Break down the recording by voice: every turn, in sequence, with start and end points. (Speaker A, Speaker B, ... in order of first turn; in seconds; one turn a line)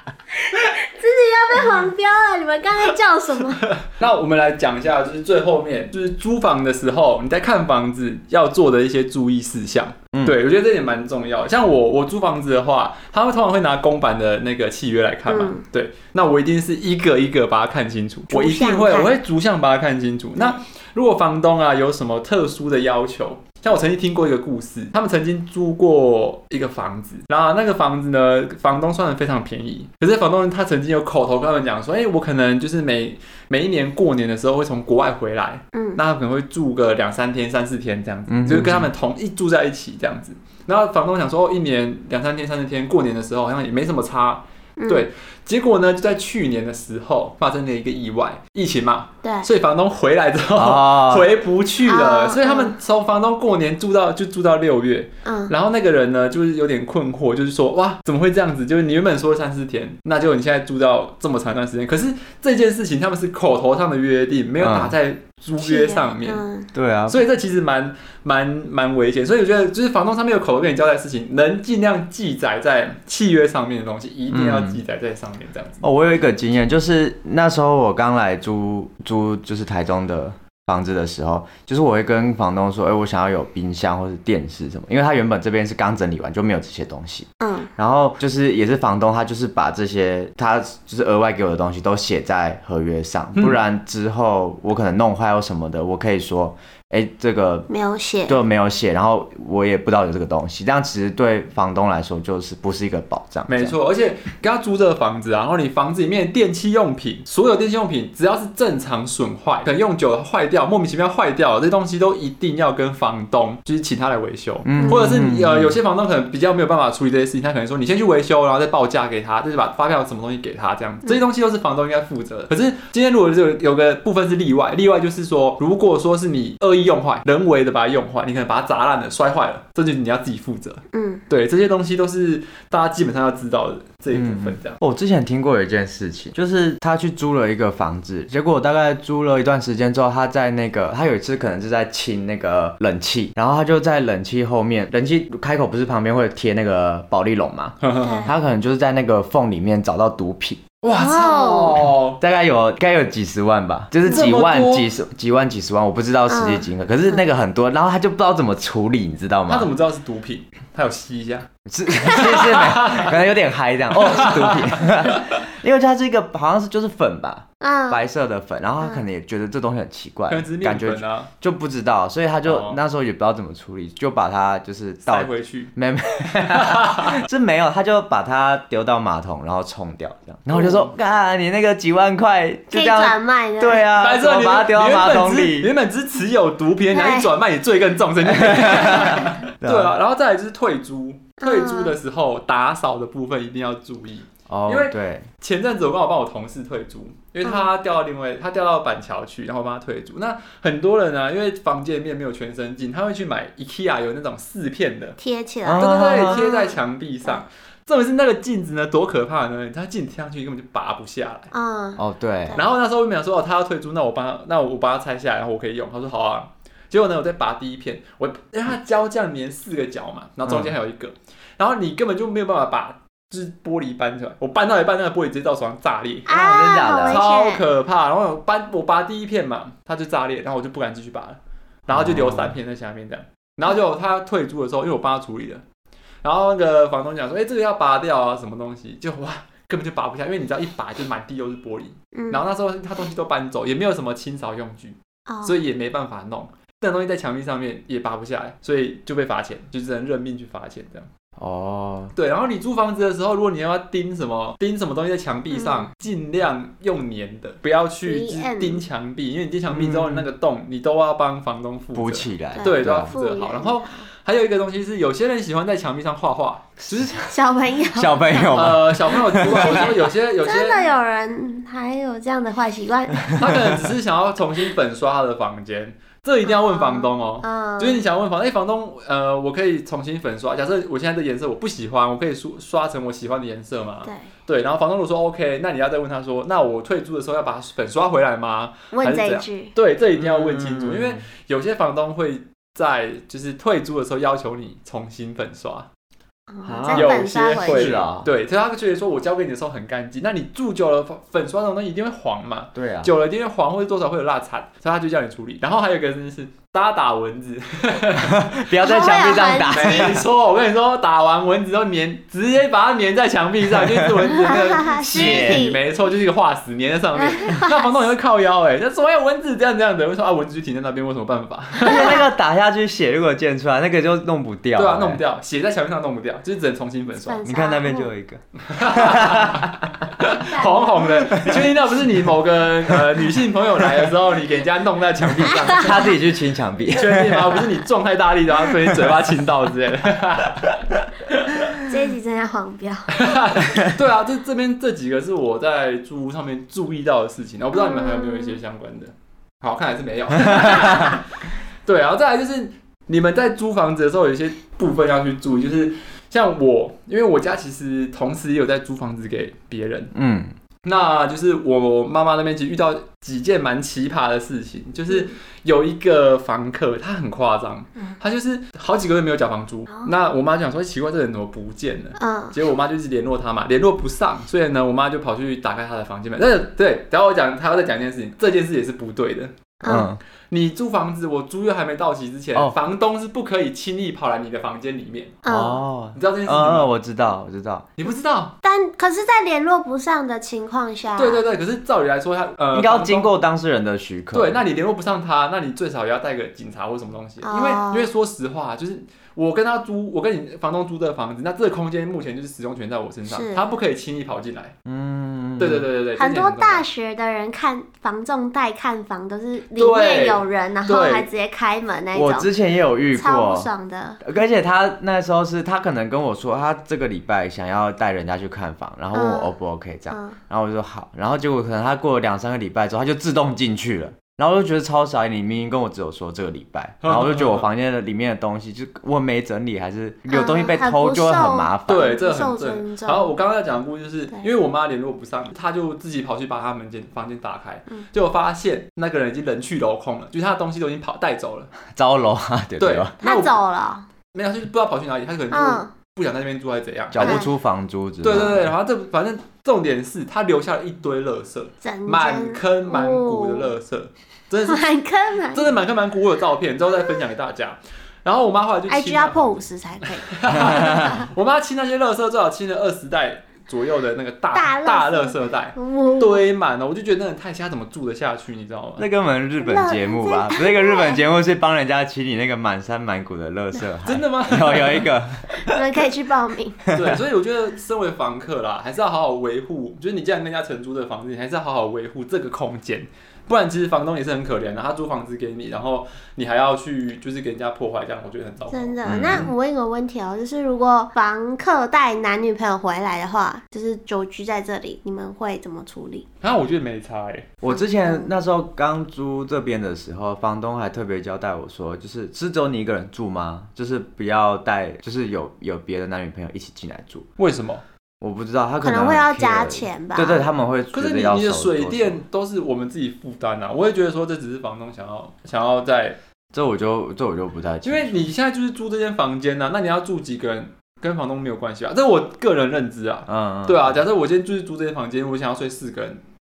Speaker A: 0.5-3.7
Speaker B: 3.8-66.4
Speaker C: 10.1-10.4
Speaker A: 15.3-15.6
Speaker A: 18.3-19.2
Speaker A: 35.7-36.0
Speaker C: 38.3-38.9
Speaker A: 44.8-45.1
Speaker A: 49.2-49.5
Speaker C: 50.6-51.3
Speaker A: 51.9-52.8
Speaker A: 55.2-55.5
Speaker C: 64.6-64.9
Speaker A: 65.6-66.7
Speaker C: 66.7-67.2
Speaker B: 67.1-75.8
Speaker C: 74.3-74.8
Speaker C: 75.8-97.7
Speaker A: 87.4-87.7
Speaker A: 97.7-98.4
Speaker C: 98.3-103.8
Speaker B: 103.5-134.8
Speaker C: 114.7-115.8
Speaker A: 114.8-115.0
Speaker A: 130.9-131.2
Speaker C: 134.1-150.6
Speaker B: 147.8-148.3
Speaker A: 148.0-148.3
Speaker B: 150.8-152.2
Speaker A: 151.0-151.9
Speaker C: 152.2-159.7
Speaker B: 154.1-154.9
Speaker A: 156.3-156.7
Speaker B: 159.5-161.5
Speaker C: 161.7-185.7
Speaker B: 162.0-163.3
Speaker B: 164.0-165.1
Speaker A: 167.6-168.0
Speaker B: 170.3-171.3
Speaker B: 172.4-172.8
Speaker B: 175.0-175.7
Speaker B: 176.5-177.2
Speaker B: 180.5-180.9
Speaker A: 182.7-183.9
Speaker B: 184.0-205.2
Speaker A: 186.9-187.3
Speaker C: 188.3-189.9
Speaker A: 191.4-191.9
Speaker C: 194.5-195.3
Speaker A: 205.2-207.4
Speaker C: 205.7-206.4
Speaker B: 205.8-211.5
Speaker A: 211.5-212.6
Speaker C: 212.0-212.6
Speaker B: 212.5-226.4
Speaker C: 220.5-220.7
Speaker A: 226.3-227.6
Speaker C: 226.3-227.2
Speaker B: 227.1-235.6
Speaker C: 231.9-232.6
Speaker B: 236.2-251.1
Speaker A: 242.1-242.4
Speaker A: 245.3-245.6
Speaker C: 251.4-252.1
Speaker B: 252.2-267.3
Speaker A: 255.5-255.9
Speaker A: 258.0-258.8
Speaker C: 259.7-260.3
Speaker C: 261.9-263.1
Speaker A: 262.6-264.1
Speaker A: 267.2-268.6
Speaker C: 267.9-269.9
Speaker B: 268.5-270.9
Speaker A: 269.3-273.4
Speaker C: 273.2-273.8
Speaker B: 273.3-295.9
Speaker A: 276.5-278.0
Speaker A: 288.9-289.7
Speaker C: 290.2-291.2
Speaker A: 296.5-297.9
Speaker C: 296.6-298.3
Speaker B: 296.9-308.4
Speaker C: 302.8-303.1
Speaker C: 308.2-310.3
Speaker A: 308.8-310.1
Speaker B: 309.6-322.2
Speaker C: 313.7-315.7
Speaker A: 314.5-315.8
Speaker A: 317.2-318.0
Speaker C: 321.8-325.2
Speaker A: 321.9-322.2
Speaker B: 324.8-327.4
Speaker A: 327.2-328.1
Speaker C: 327.4-330.1
Speaker B: 328.7-336.1
Speaker C: 331.3-331.7
Speaker C: 335.6-337.6
Speaker B: 336.9-341.7
Speaker C: 338.8-339.1
Speaker A: 341.9-343.1
Speaker B: 343.1-351.2
Speaker C: 343.6-343.9
Speaker A: 347.7-348.6
Speaker C: 350.5-351.2
Speaker A: 350.9-351.2
Speaker B: 351.9-360.1
Speaker C: 360.1-360.5
Speaker B: 360.8-385.4
Speaker A: 365.1-365.4
Speaker A: 372.2-372.6
Speaker A: 379.8-380.1
Speaker C: 379.8-380.2
Speaker A: 385.4-385.8
Speaker C: 385.5-387.9
Speaker B: 386.1-386.9
Speaker B: 388.0-388.6
Speaker A: 388.6-391.4
Speaker B: 391.2-393.3
Speaker C: 392.7-394.6
Speaker B: 394.3-404.7
Speaker A: 397.4-398.1
Speaker A: 403.3-403.7
Speaker C: 404.9-405.9
Speaker B: 405.6-406.9
Speaker A: 406.2-412.5
Speaker B: 409.8-411.3
Speaker C: 412.1-413.7
Speaker A: 413.1-414.2
Speaker C: 414.2-432.0
Speaker A: 419.1-419.5
Speaker A: 420.1-420.4
Speaker B: 427.0-427.7
Speaker A: 430.3-433.3
Speaker B: 431.9-441.7
Speaker C: 441.9-443.1
Speaker B: 442.8-443.6
Speaker A: 443.2-444.1
Speaker B: 444.3-447.5
Speaker A: 445.5-445.9
Speaker C: 447.1-448.7
Speaker A: 447.2-447.5
Speaker B: 448.2-454.9
Speaker A: 451.8-453.7
Speaker A: 454.6-455.7
Speaker B: 455.5-469.1
Speaker A: 458.9-461.3
Speaker C: 460.6-461.2
Speaker A: 464.5-466.4
Speaker C: 469.0-475.9
Speaker A: 469.6-471.2
Speaker B: 474.0-475.1
Speaker A: 475.6-476.8
Speaker C: 476.9-477.2
Speaker B: 476.9-489.4
Speaker A: 488.7-496.2
Speaker C: 489.1-489.5
Speaker B: 496.4-497.5
Speaker C: 497.6-507.3
Speaker A: 497.7-498.3
Speaker B: 507.4-507.8
Speaker C: 508.2-512.2
Speaker A: 508.8-510.4
Speaker B: 510.9-516.2
Speaker C: 516.5-518.3
Speaker B: 517.8-526.2
Speaker C: 523.3-524.0